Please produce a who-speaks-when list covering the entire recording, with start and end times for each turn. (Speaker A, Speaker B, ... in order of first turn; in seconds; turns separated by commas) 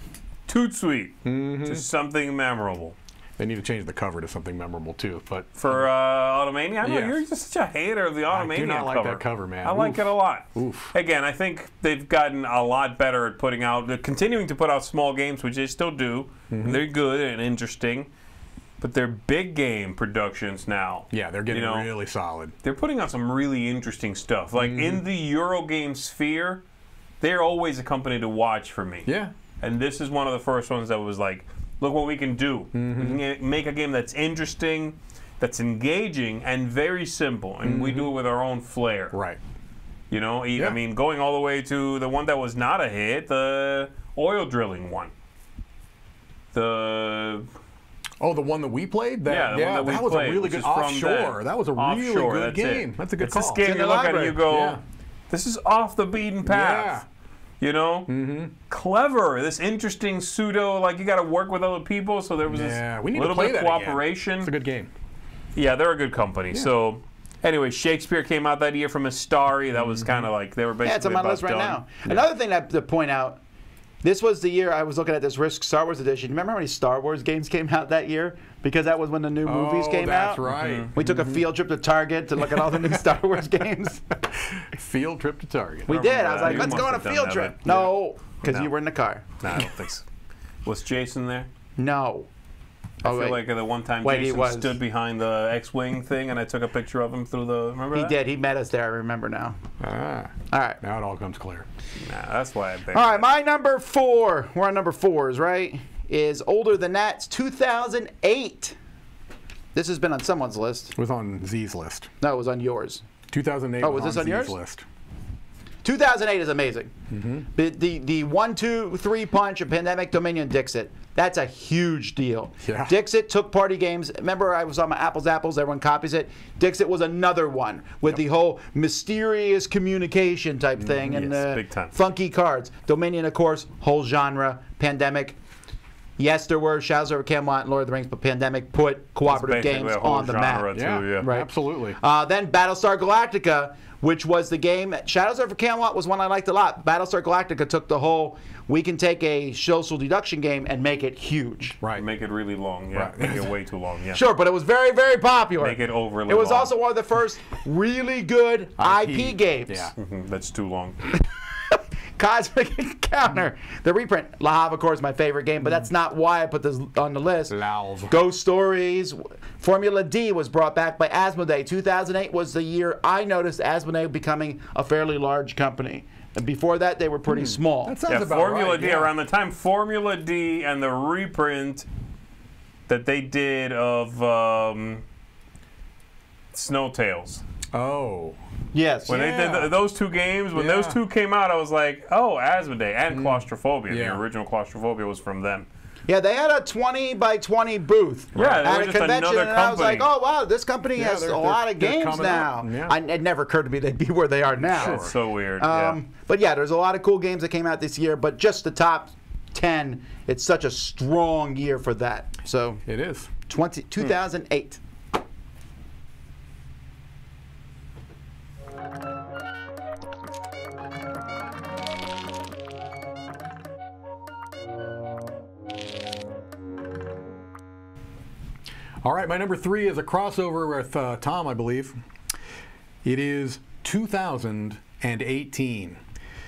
Speaker A: 0.5-3.0, Speaker B: 1.2-1.9, Speaker B: 3.4-5.9, Speaker A: 5.6-18.1, Speaker B: 6.8-7.2, Speaker B: 8.3-10.9, Speaker B: 16.5-16.8, Speaker A: 18.8-21.9, Speaker B: 21.1-22.5, Speaker A: 22.6-26.6, Speaker B: 24.6-25.0, Speaker A: 27.2-29.1, Speaker B: 29.1-29.3, Speaker A: 29.6-39.2, Speaker B: 32.7-33.2, Speaker B: 37.6-38.1, Speaker B: 39.1-39.4, Speaker A: 40.1-45.1, Speaker A: 46.5-47.5, Speaker B: 48.2-54.8, Speaker A: 49.3-57.0, Speaker C: 53.6-54.4, Speaker B: 56.5-57.0, Speaker A: 57.6-58.1, Speaker B: 58.1-58.5, Speaker A: 58.7-64.5, Speaker B: 62.5-64.9, Speaker A: 65.5-71.8, Speaker B: 69.9-70.3, Speaker C: 70.8-73.4, Speaker C: 74.0-84.0, Speaker B: 79.5-81.5, Speaker A: 80.5-80.9, Speaker B: 82.7-82.9, Speaker B: 84.4-86.8, Speaker C: 85.9-89.3, Speaker A: 85.9-88.7, Speaker A: 89.4-90.0, Speaker A: 90.7-91.5, Speaker C: 91.8-92.3, Speaker A: 93.0-98.2, Speaker C: 93.0-93.4, Speaker C: 94.0-94.8, Speaker C: 97.9-99.6, Speaker B: 99.8-101.7, Speaker C: 100.5-100.8, Speaker A: 102.0-103.3, Speaker C: 102.9-108.8, Speaker C: 109.7-110.9, Speaker B: 111.0-112.1, Speaker C: 112.2-113.0, Speaker B: 113.3-114.8, Speaker C: 113.8-114.6, Speaker C: 115.8-116.9, Speaker B: 117.1-117.5, Speaker C: 117.5-135.4, Speaker B: 122.6-122.9, Speaker B: 130.8-131.3, Speaker A: 131.1-131.9, Speaker C: 136.2-140.7, Speaker A: 139.3-141.3, Speaker B: 140.7-142.0, Speaker C: 141.2-151.8, Speaker B: 151.8-152.1, Speaker A: 151.9-154.2, Speaker B: 152.9-153.5, Speaker C: 154.1-159.9, Speaker A: 155.6-156.7, Speaker B: 158.8-159.9, Speaker A: 160.0-161.0, Speaker C: 161.2-167.6, Speaker B: 167.5-168.1, Speaker C: 168.1-178.0, Speaker B: 177.3-179.1, Speaker A: 178.1-181.9, Speaker A: 182.9-185.0, Speaker A: 186.5-187.4, Speaker B: 187.7-188.4, Speaker C: 188.7-189.5, Speaker A: 189.1-195.7, Speaker B: 189.1-189.7, Speaker B: 190.5-191.0, Speaker B: 193.1-194.2, Speaker C: 196.1-212.8, Speaker A: 198.3-200.1, Speaker B: 198.4-198.7, Speaker B: 201.0-203.0, Speaker B: 204.7-205.1, Speaker A: 204.7-206.0, Speaker B: 212.9-213.3, Speaker C: 213.5-214.8, Speaker B: 229.0-231.9, Speaker B: 233.0-236.0